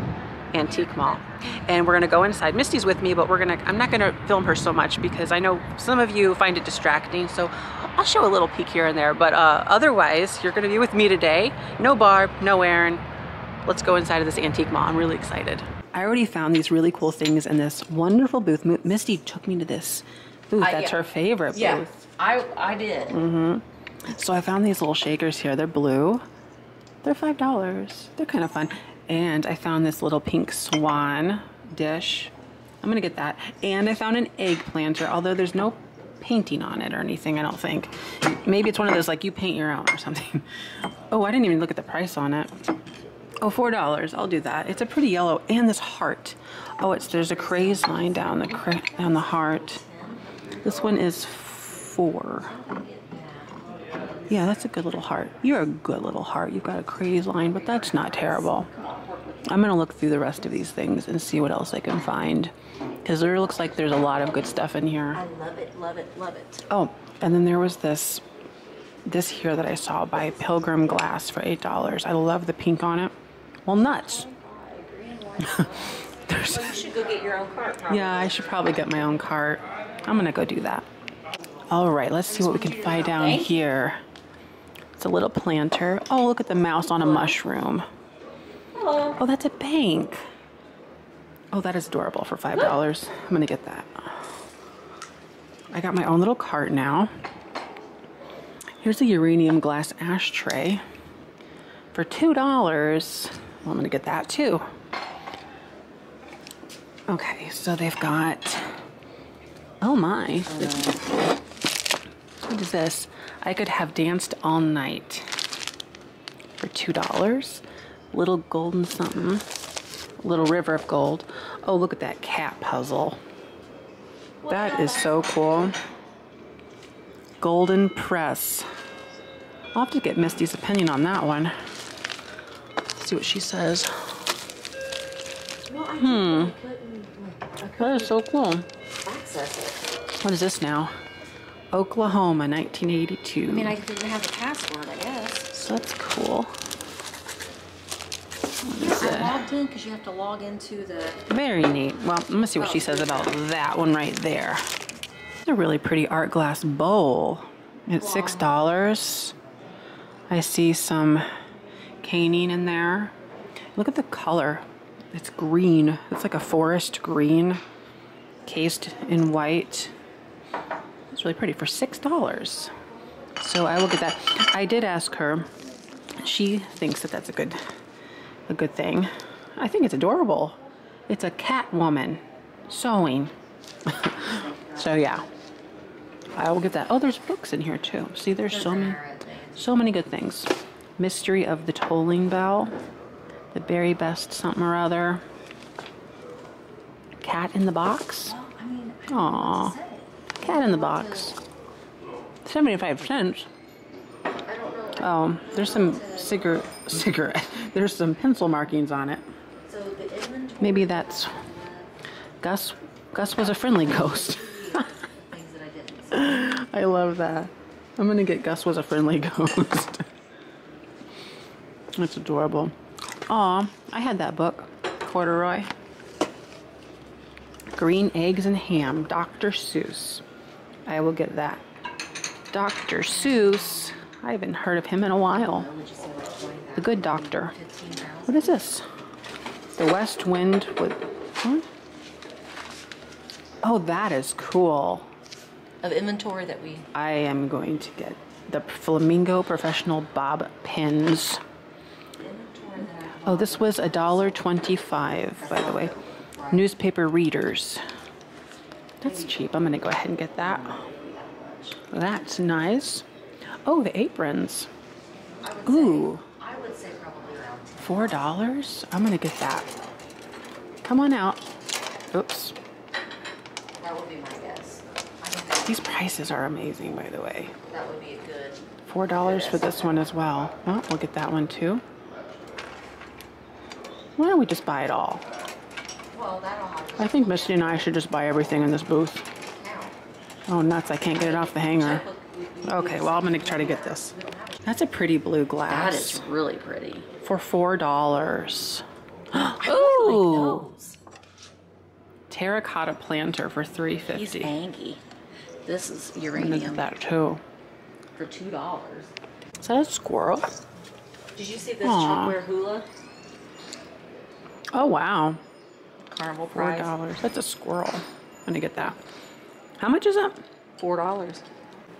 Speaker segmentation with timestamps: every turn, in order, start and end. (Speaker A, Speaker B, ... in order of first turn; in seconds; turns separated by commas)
Speaker A: 0.5-13.0, Speaker B: 0.7-1.5, Speaker A: 13.6-22.0, Speaker B: 20.6-21.0, Speaker B: 21.5-23.2, Speaker A: 23.1-26.2, Speaker A: 27.0-40.5, Speaker A: 41.1-42.5, Speaker A: 43.4-49.8, Speaker B: 47.0-50.2, Speaker A: 50.6-52.5, Speaker B: 52.4-54.2, Speaker A: 54.3-58.7, Speaker B: 57.5-59.5, Speaker A: 59.5-62.5, Speaker A: 63.0-65.2, Speaker B: 65.1-66.6, Speaker A: 66.7-68.2, Speaker A: 69.0-73.1, Speaker A: 73.7-74.2, Speaker B: 73.8-78.6, Speaker A: 76.3-76.8, Speaker A: 77.9-80.8, Speaker A: 81.7-84.0, Speaker B: 82.3-83.6, Speaker A: 85.0-87.8, Speaker B: 86.9-87.4, Speaker B: 88.7-89.2, Speaker A: 89.2-90.2, Speaker A: 91.5-94.2, Speaker A: 95.7-97.1, Speaker A: 98.8-100.8, Speaker A: 101.9-104.6, Speaker A: 107.1-108.7, Speaker A: 109.8-110.9, Speaker B: 110.5-111.0, Speaker A: 112.4-115.3, Speaker A: 116.6-119.4, Speaker A: 120.2-123.2, Speaker B: 124.4-125.8, Speaker A: 124.5-125.8, Speaker A: 127.4-128.7, Speaker A: 129.7-131.5, Speaker A: 132.9-134.2, Speaker B: 135.7-138.1, Speaker A: 136.0-136.5, Speaker A: 137.8-138.7, Speaker B: 139.0-139.8, Speaker A: 140.1-140.9, Speaker A: 141.7-143.7, Speaker B: 143.4-145.5, Speaker A: 145.5-146.5, Speaker A: 148.6-149.4, Speaker B: 148.7-151.2, Speaker A: 151.3-154.6, Speaker B: 152.5-153.3, Speaker A: 155.4-159.3, Speaker B: 157.9-158.5, Speaker A: 160.3-161.2, Speaker A: 162.0-163.1, Speaker A: 163.8-167.6, Speaker A: 168.4-169.9, Speaker A: 171.1-172.7, Speaker A: 173.4-175.5, Speaker A: 176.2-177.6, Speaker A: 178.5-180.6, Speaker A: 181.1-183.3, Speaker B: 184.0-185.2, Speaker A: 184.8-185.2, Speaker A: 186.3-189.0, Speaker B: 188.4-189.7, Speaker A: 189.6-192.7, Speaker A: 193.5-195.2, Speaker A: 197.2-198.3, Speaker B: 198.2-201.4, Speaker A: 199.1-199.8, Speaker A: 200.4-201.4, Speaker A: 202.4-203.5, Speaker B: 204.4-206.4, Speaker A: 205.0-209.2, Speaker B: 209.6-211.9, Speaker A: 210.6-211.4, Speaker A: 212.4-214.8, Speaker B: 213.7-216.4, Speaker A: 216.1-220.1, Speaker A: 221.9-222.7, Speaker A: 223.3-225.7, Speaker A: 227.7-230.2, Speaker A: 230.8-231.6, Speaker A: 232.5-235.7, Speaker B: 233.0-234.0, Speaker B: 235.2-238.5, Speaker A: 236.8-237.5, Speaker A: 238.3-238.8, Speaker A: 239.8-241.7, Speaker A: 243.6-245.1, Speaker B: 245.8-246.9, Speaker A: 246.9-251.4, Speaker B: 252.2-254.6, Speaker A: 253.3-255.9, Speaker B: 255.3-256.7, Speaker A: 256.5-257.8, Speaker A: 259.0-260.8, Speaker B: 259.0-259.3, Speaker B: 260.4-261.8, Speaker A: 261.9-263.0, Speaker A: 263.6-264.7, Speaker B: 265.4-268.4, Speaker A: 265.6-266.2, Speaker A: 267.8-269.7, Speaker A: 270.8-271.4, Speaker A: 272.1-272.5, Speaker B: 273.8-276.0, Speaker A: 275.6-277.5, Speaker B: 277.7-280.1, Speaker A: 278.9-281.8, Speaker A: 284.2-285.2, Speaker B: 286.1-287.9, Speaker A: 287.0-289.2, Speaker B: 289.4-290.0, Speaker A: 290.5-292.0, Speaker B: 291.1-294.7, Speaker A: 292.6-294.1, Speaker A: 294.6-296.2, Speaker B: 295.7-297.1, Speaker A: 297.2-300.6, Speaker B: 299.6-301.0, Speaker A: 302.3-304.6, Speaker B: 304.1-305.0, Speaker B: 305.6-306.9, Speaker A: 306.4-307.4, Speaker B: 308.1-309.1, Speaker A: 309.6-310.5, Speaker B: 311.3-312.9, Speaker A: 311.8-312.4, Speaker A: 314.7-315.4, Speaker B: 316.1-316.9, Speaker A: 316.5-319.0, Speaker A: 319.8-320.4, Speaker B: 320.8-321.5